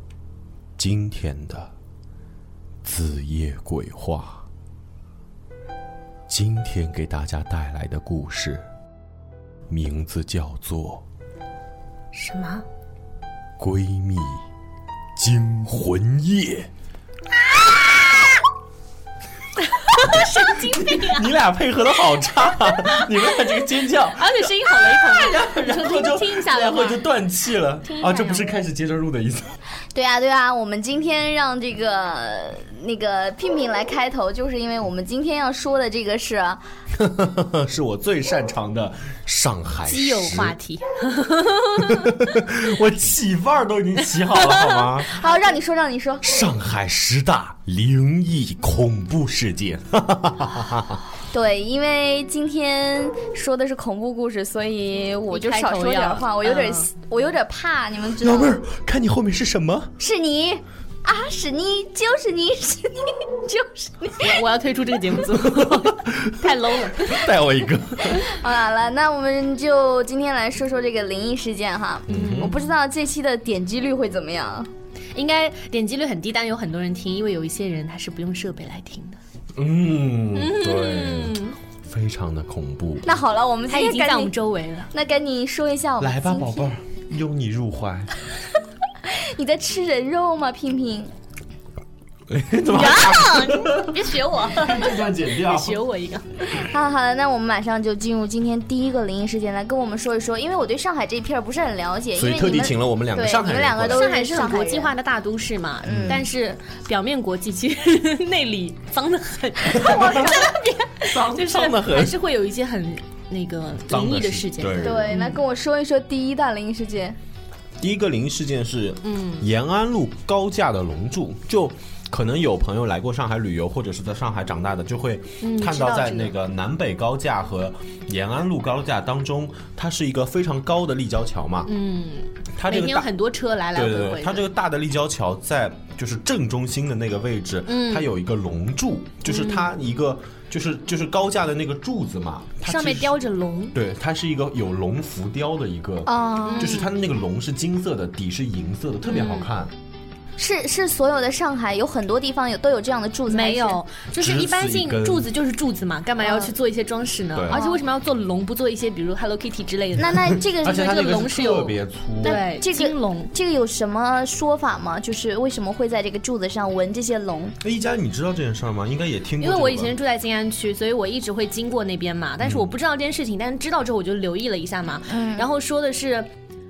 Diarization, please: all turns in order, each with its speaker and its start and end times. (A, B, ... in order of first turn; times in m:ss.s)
0:00.8-0:01.7 A
0:02.8-0:04.4 A
0:06.3-0:08.6 A
0:09.7-0:11.0 A
0:12.1-0:12.6 B
0:13.6-0:14.4 A
0:15.2-0:16.7 A
0:19.7-0:21.3 B
0:20.0-0:29.6 A
0:22.6-0:23.3 B
0:24.0-0:27.0 B
0:27.8-0:28.6 B
0:29.9-0:36.6 C
0:36.9-0:40.6 A
0:39.8-0:42.3 B
0:41.8-0:45.2 A
0:44.2-0:44.9 B
0:45.1-0:46.4 C
0:46.2-0:51.0 A
0:51.3-0:58.6 C
0:55.3-0:56.9 B
0:58.2-1:00.0 A
1:00.0-1:04.4 C
1:04.2-1:07.2 B
1:05.4-1:08.3 A
1:08.0-1:14.7 C
1:12.1-1:12.7 B
1:12.1-1:12.6 A
1:15.1-1:19.2 B
1:19.6-1:23.2 A
1:20.3-1:21.6 B
1:23.0-1:24.3 C
1:23.7-1:24.9 B
1:24.9-1:26.7 C
1:26.0-1:28.2 A
1:29.0-1:31.1 C
1:32.3-1:35.8 A
1:32.7-1:36.3 B
1:32.8-1:33.2 C
1:36.5-1:44.9 C
1:42.1-1:44.0 A
1:43.9-1:55.4 B
1:45.8-1:46.2 C
1:45.8-1:46.2 A
1:49.8-1:50.4 A
1:51.0-1:52.2 A
1:53.9-1:55.2 A
1:54.8-1:57.2 C
1:57.8-2:11.7 A
1:59.0-1:59.4 B
2:05.4-2:06.3 B
2:11.6-2:14.4 B
2:12.6-2:13.1 A
2:13.7-2:23.2 A
2:17.6-2:18.1 B
2:19.2-2:19.7 B
2:22.6-2:23.8 B
2:23.7-2:29.7 A
2:26.0-2:26.8 C
2:26.4-2:26.9 B
2:29.0-2:29.5 B
2:30.4-2:33.8 C
2:33.3-2:43.3 B
2:34.2-2:35.3 A
2:36.2-2:36.5 C
2:37.3-2:37.6 A
2:37.5-2:37.8 C
2:40.0-2:41.2 C
2:40.5-2:42.4 A
2:42.2-2:47.6 C
2:47.6-2:49.9 A
2:49.4-2:56.3 B
2:52.4-2:52.7 A
2:55.1-2:55.4 C